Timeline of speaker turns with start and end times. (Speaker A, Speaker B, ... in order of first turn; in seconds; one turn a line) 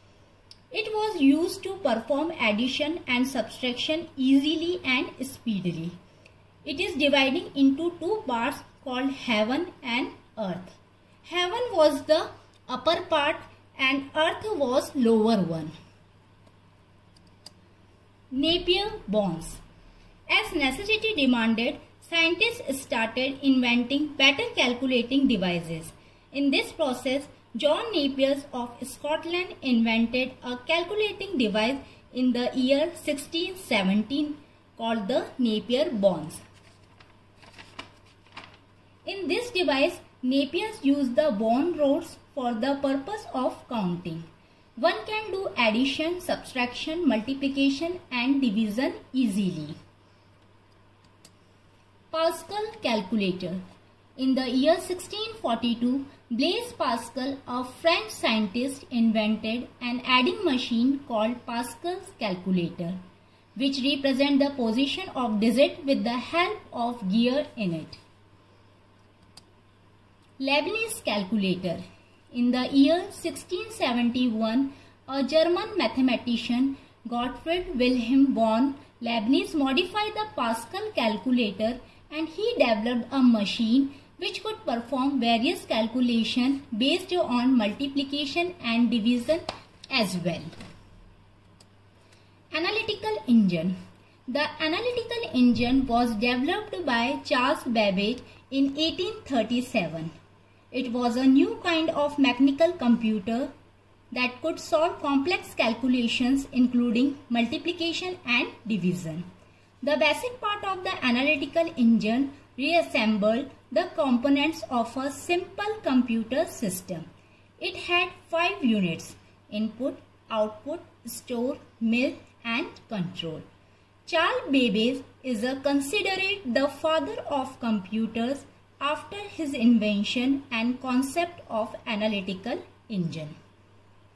Speaker A: 0.7-6.0
Speaker A: 6.6-15.7
Speaker A: 18.3-19.6
Speaker A: 20.3-36.4
Speaker A: 39.0-49.8
Speaker A: 52.1-53.6
Speaker A: 54.2-63.0
Speaker A: 63.5-68.0
Speaker A: 70.4-90.5
Speaker A: 92.5-93.8
Speaker A: 94.3-100.1
Speaker A: 100.7-103.5
Speaker A: 104.1-109.3
Speaker A: 109.8-117.0
Speaker A: 117.6-123.4
Speaker A: 124.0-133.3